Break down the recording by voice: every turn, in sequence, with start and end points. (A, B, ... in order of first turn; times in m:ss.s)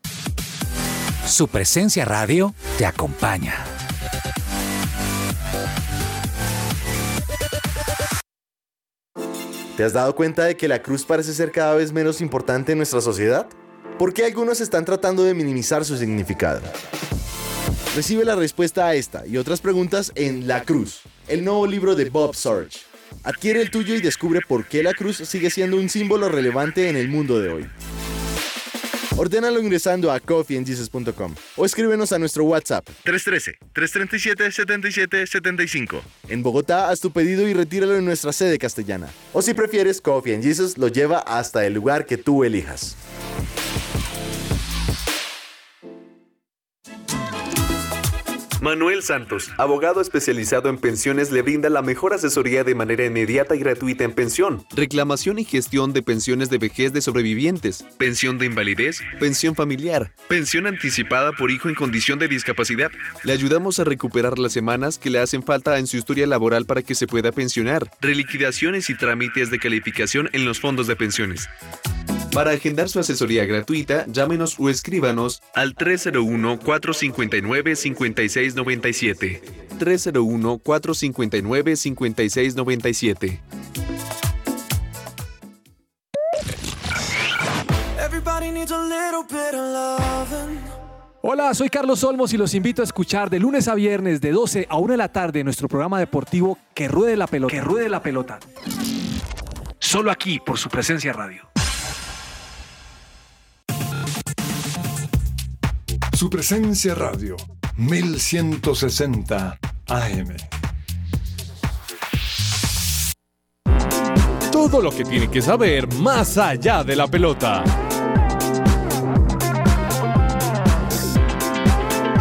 0:01.2-0:03.7 A
0:09.8-0:16.7 B
0:17.9-0:27.7 B
0:29.2-0:43.0 B
0:48.6-1:11.5 C
1:12.3-1:23.4 C
1:31.3-1:38.4 D
1:39.9-1:41.4 D
1:46.1-1:50.5 E
1:54.5-1:57.7 F